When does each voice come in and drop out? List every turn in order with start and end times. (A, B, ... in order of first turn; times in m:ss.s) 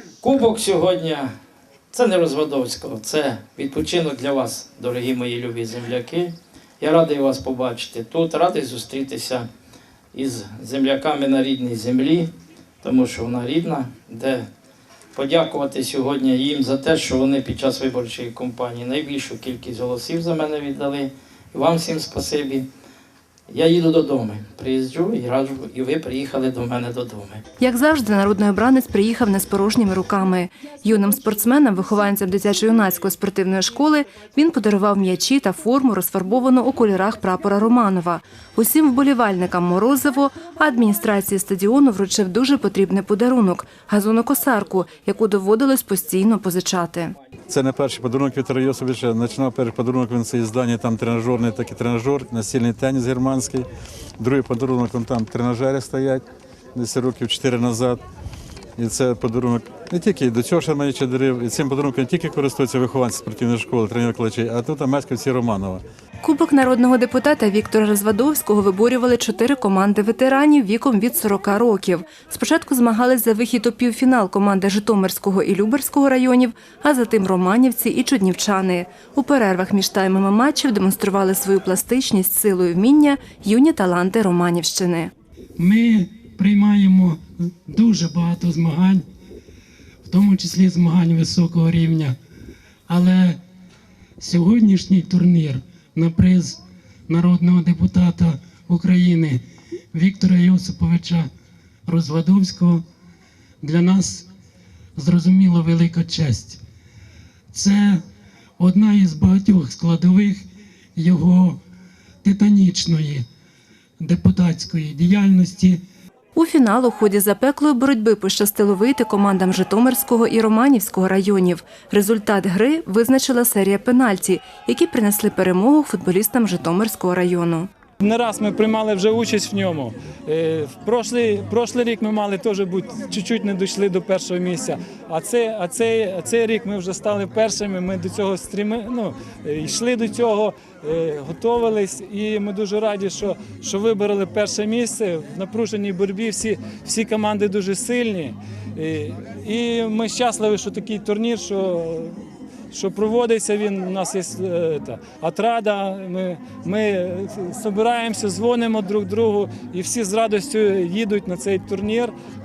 0:00.2-0:01.3 A
0:01.9-0:09.5 A
0:10.1-0:14.4 A
0:15.1-0:22.7 A
0:23.5-0:27.4 A
0:27.6-0:47.1 B
0:47.5-0:53.7 C
0:54.2-0:58.0 C
0:58.8-1:05.8 C
1:06.2-1:25.1 B
1:25.6-1:29.0 D
1:30.0-1:32.2 D
1:32.9-1:33.4 D
1:34.2-1:39.4 D
1:39.9-1:41.3 D
1:41.9-1:42.8 D
1:43.6-1:44.3 D
1:45.0-1:46.6 D
1:47.5-1:48.0 D
1:48.6-1:50.4 D
1:51.0-1:51.6 D
1:52.2-1:53.2 D
1:54.0-1:55.8 D
1:56.3-2:07.7 B
2:08.0-2:42.1 E